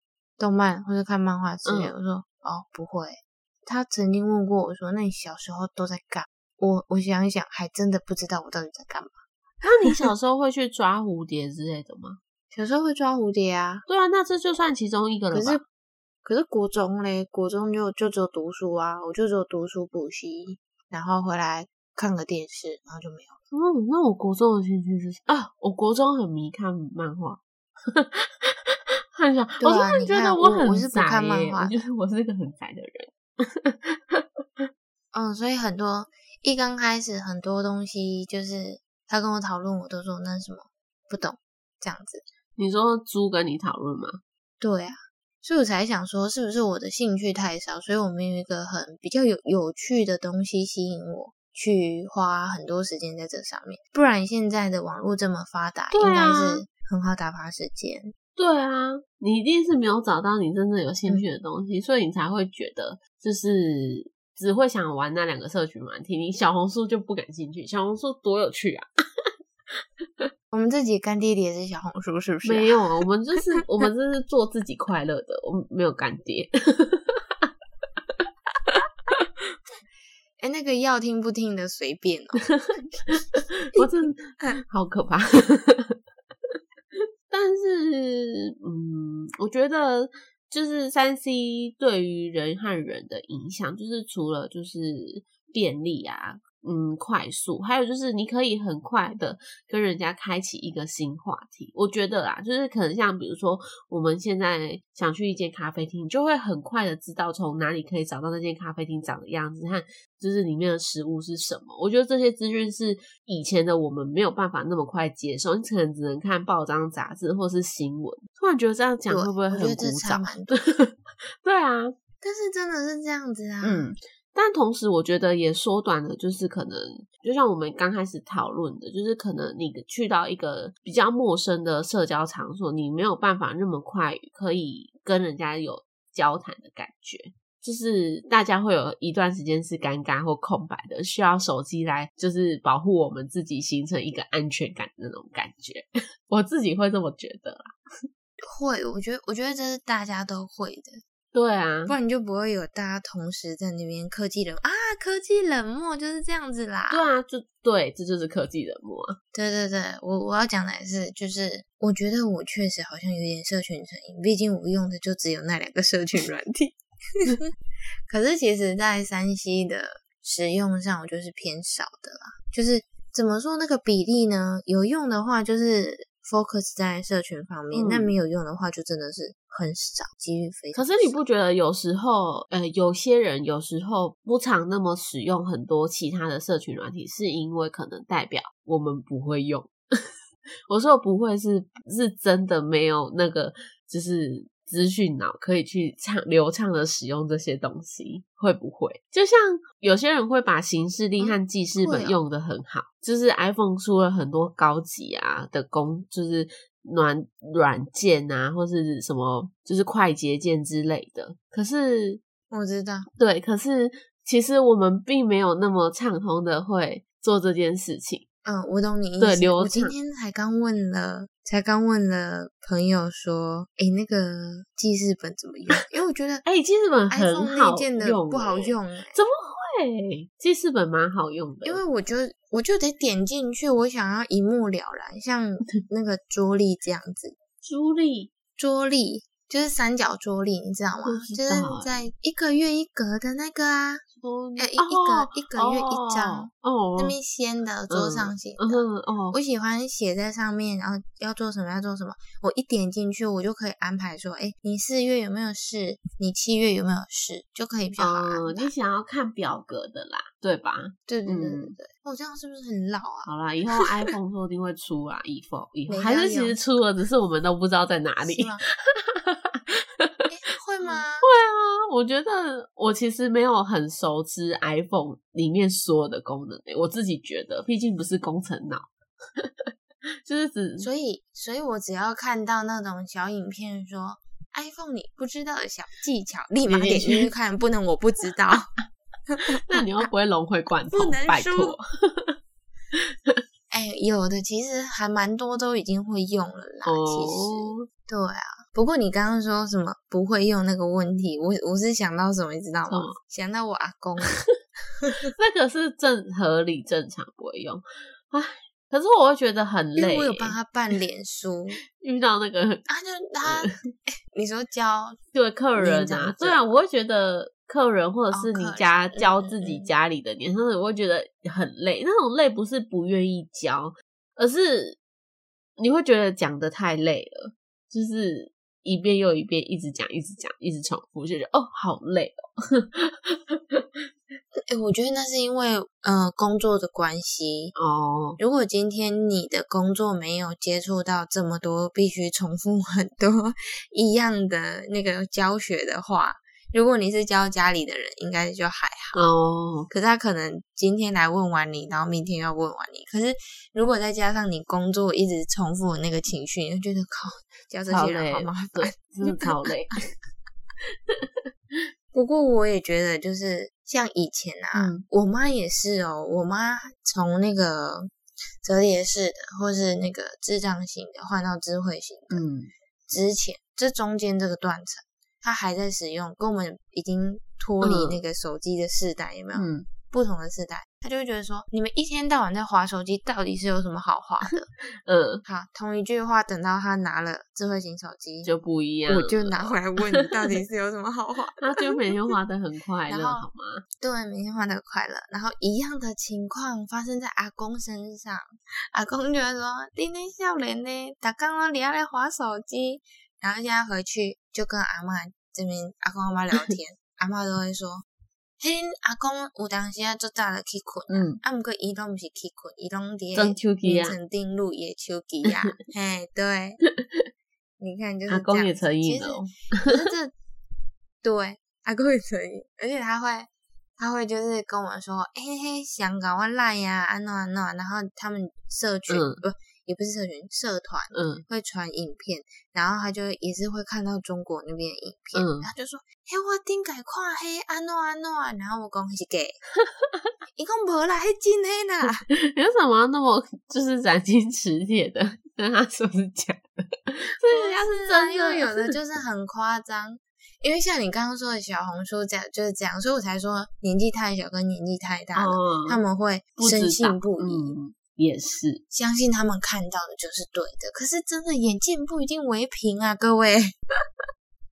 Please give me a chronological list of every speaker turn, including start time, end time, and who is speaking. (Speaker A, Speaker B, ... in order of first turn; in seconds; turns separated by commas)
Speaker A: 0.4-9.2, Speaker B: 1.6-1.9, Speaker B: 9.6-12.2, Speaker A: 12.5-13.8, Speaker B: 13.9-15.6, Speaker A: 15.3-15.6, Speaker A: 16.2-23.4, Speaker B: 23.5-34.7, Speaker A: 29.6-31.9, Speaker A: 35.1-42.2, Speaker B: 42.6-44.2, Speaker A: 44.6-58.1, Speaker B: 55.9-56.6, Speaker B: 58.4-69.3, Speaker A: 70.5-72.8, Speaker B: 72.4-77.5, Speaker B: 78.1-79.5, Speaker A: 80.4-82.5, Speaker B: 82.5-86.0, Speaker A: 83.8-84.6, Speaker B: 86.5-121.9, Speaker A: 119.1-120.6, Speaker A: 122.2-123.9, Speaker B: 123.6-147.7, Speaker A: 148.5-151.0, Speaker B: 151.3-151.9, Speaker A: 151.9-157.1, Speaker B: 156.9-159.2, Speaker A: 159.3-167.4, Speaker A: 168.1-181.2, Speaker B: 177.7-178.1, Speaker B: 180.7-189.8, Speaker B: 190.7-212.2, Speaker A: 201.2-202.2, Speaker A: 212.5-213.1, Speaker B: 213.2-218.2, Speaker A: 218.4-226.4, Speaker B: 219.2-219.9, Speaker B: 226.4-231.8, Speaker A: 227.1-229.2, Speaker A: 231.6-237.3, Speaker B: 237.6-238.3, Speaker A: 238.6-244.0, Speaker B: 241.0-241.9, Speaker B: 244.2-247.2, Speaker A: 244.6-258.7, Speaker B: 247.9-249.3, Speaker B: 258.0-261.7, Speaker A: 261.1-263.8, Speaker B: 263.2-270.3, Speaker A: 265.9-266.6, Speaker A: 268.2-268.6, Speaker A: 270.3-271.3, Speaker B: 270.8-279.7, Speaker B: 280.2-280.9, Speaker A: 280.8-288.7, Speaker B: 286.7-287.3, Speaker A: 289.3-290.0, Speaker B: 289.6-292.4, Speaker A: 290.9-291.8, Speaker B: 292.9-293.4, Speaker A: 293.7-304.4, Speaker B: 296.8-297.9, Speaker B: 302.9-303.1, Speaker B: 305.4-310.6, Speaker A: 310.0-311.8, Speaker B: 312.0-312.8, Speaker A: 312.9-313.7, Speaker B: 313.4-313.7, Speaker A: 314.3-315.2, Speaker B: 315.3-325.0, Speaker A: 315.8-316.8, Speaker A: 318.3-319.9, Speaker B: 325.8-334.1, Speaker A: 334.7-337.7, Speaker B: 337.8-338.4, Speaker A: 338.4-349.2, Speaker B: 349.1-349.9, Speaker A: 349.9-359.6, Speaker B: 357.9-360.0, Speaker B: 360.8-361.8, Speaker A: 362.1-368.1, Speaker B: 364.7-365.0, Speaker A: 368.6-372.4, Speaker B: 372.3-372.7, Speaker A: 373.1-384.7, Speaker B: 377.8-378.2, Speaker B: 379.5-379.9, Speaker B: 385.0-385.4, Speaker A: 385.4-388.5, Speaker B: 388.4-390.3, Speaker A: 389.1-392.0, Speaker B: 391.6-393.8, Speaker A: 393.1-393.4, Speaker A: 394.0-408.0, Speaker A: 408.6-416.8, Speaker B: 411.1-411.4, Speaker B: 413.3-414.2, Speaker B: 415.4-415.8, Speaker B: 416.8-417.3, Speaker A: 417.8-420.3, Speaker B: 418.3-419.9, Speaker A: 421.2-439.6, Speaker B: 429.1-429.4, Speaker B: 431.1-431.4, Speaker B: 435.3-435.7, Speaker B: 439.8-440.3, Speaker A: 440.6-442.2, Speaker B: 442.3-448.9, Speaker A: 447.5-457.8, Speaker B: 455.3-456.0, Speaker B: 456.6-458.8, Speaker A: 458.9-463.7